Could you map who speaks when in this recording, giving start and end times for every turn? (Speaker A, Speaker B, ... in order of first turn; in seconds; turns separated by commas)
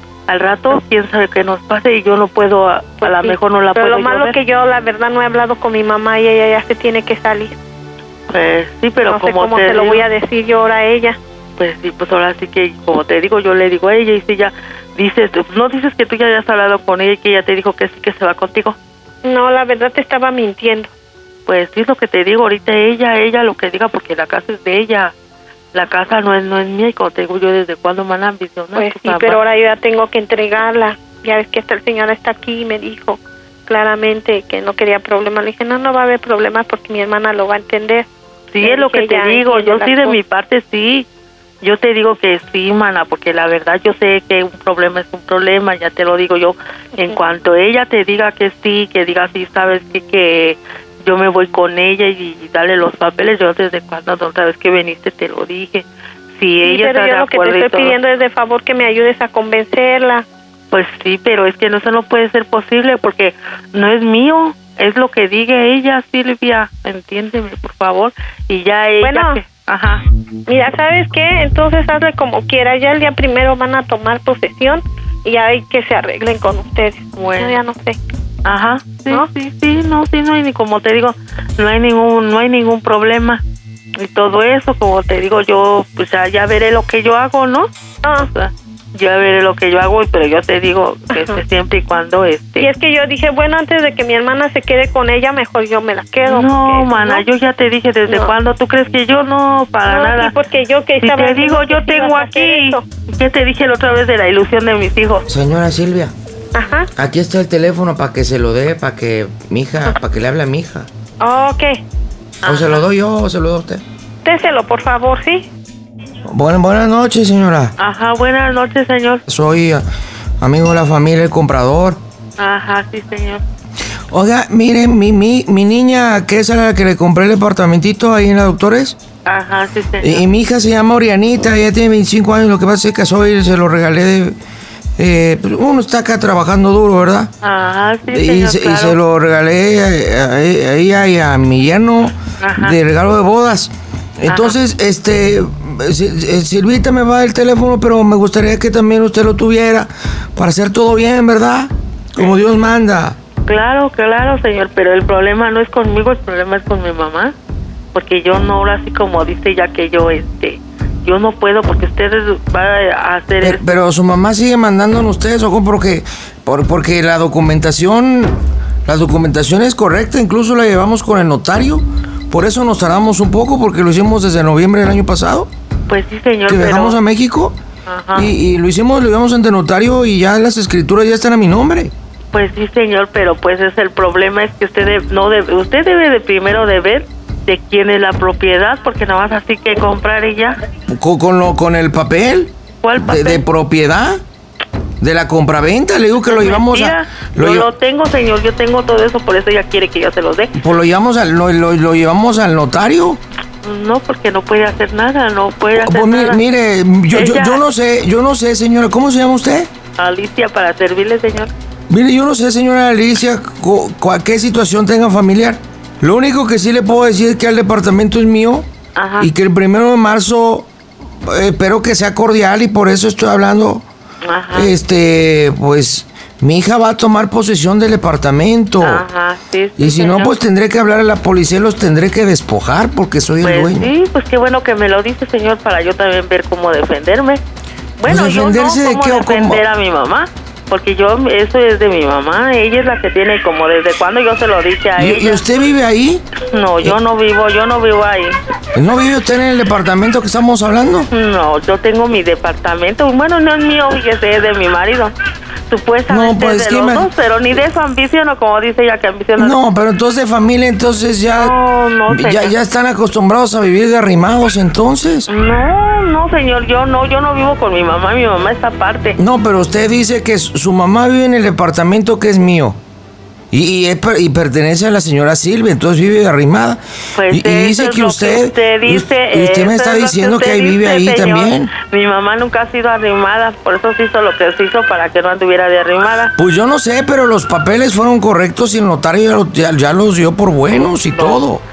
Speaker A: 0.3-4.3, Speaker B: 3.0-7.5, Speaker A: 8.3-10.0, Speaker B: 9.1-11.2, Speaker A: 11.6-18.8, Speaker B: 19.2-20.9, Speaker A: 21.4-25.1, Speaker A: 25.7-29.4, Speaker B: 28.7-38.1, Speaker A: 38.5-41.0, Speaker B: 38.6-40.2, Speaker A: 41.6-57.9, Speaker B: 56.6-60.2, Speaker A: 60.7-70.0, Speaker B: 69.0-69.4, Speaker B: 70.5-78.0, Speaker A: 77.1-77.6, Speaker A: 78.4-83.4, Speaker A: 84.0-87.7, Speaker A: 88.2-92.7, Speaker B: 92.6-97.2, Speaker A: 96.3-100.3, Speaker B: 98.1-98.3, Speaker B: 99.9-102.8, Speaker A: 101.0-105.2, Speaker C: 105.3-106.1, Speaker B: 106.5-106.9, Speaker C: 107.0-110.9, Speaker B: 111.2-111.8, Speaker A: 112.4-112.8, Speaker C: 112.4-113.8, Speaker B: 114.2-115.4, Speaker C: 116.3-117.7, Speaker A: 117.8-119.2, Speaker C: 119.3-119.8, Speaker C: 120.4-122.0, Speaker A: 122.4-123.4, Speaker C: 124.1-128.9, Speaker A: 129.2-130.2, Speaker C: 130.0-134.3, Speaker C: 135.0-137.3, Speaker A: 137.4-138.9, Speaker C: 138.1-153.2, Speaker A: 142.4-142.7, Speaker A: 144.3-144.5, Speaker A: 153.4-157.3, Speaker A: 157.9-163.6, Speaker C: 163.4-175.5, Speaker A: 175.9-177.0, Speaker C: 176.5-177.6, Speaker A: 177.9-178.2, Speaker C: 178.1-181.9, Speaker A: 182.3-190.6, Speaker C: 190.9-194.2, Speaker A: 192.8-193.4, Speaker C: 195.0-197.7, Speaker A: 196.2-200.5, Speaker C: 200.6-203.2, Speaker A: 203.6-206.4, Speaker C: 205.8-209.7, Speaker A: 207.1-207.6, Speaker A: 210.0-211.5, Speaker C: 211.9-218.7, Speaker A: 218.9-219.3, Speaker C: 219.2-220.7, Speaker C: 221.2-223.8, Speaker A: 224.2-224.7, Speaker C: 224.5-229.0, Speaker A: 228.8-230.3, Speaker C: 229.8-233.9, Speaker A: 233.4-237.4, Speaker A: 238.0-245.4, Speaker C: 238.0-239.6, Speaker C: 244.9-246.2, Speaker A: 246.5-248.4, Speaker C: 248.8-251.1, Speaker A: 251.1-255.1, Speaker A: 255.7-259.5, Speaker C: 256.1-257.1, Speaker C: 259.4-261.6, Speaker A: 261.4-262.5, Speaker C: 262.1-265.3, Speaker A: 265.3-269.2, Speaker C: 269.2-272.8, Speaker C: 273.5-281.7, Speaker A: 277.1-286.3, Speaker C: 286.4-291.6, Speaker A: 290.7-291.4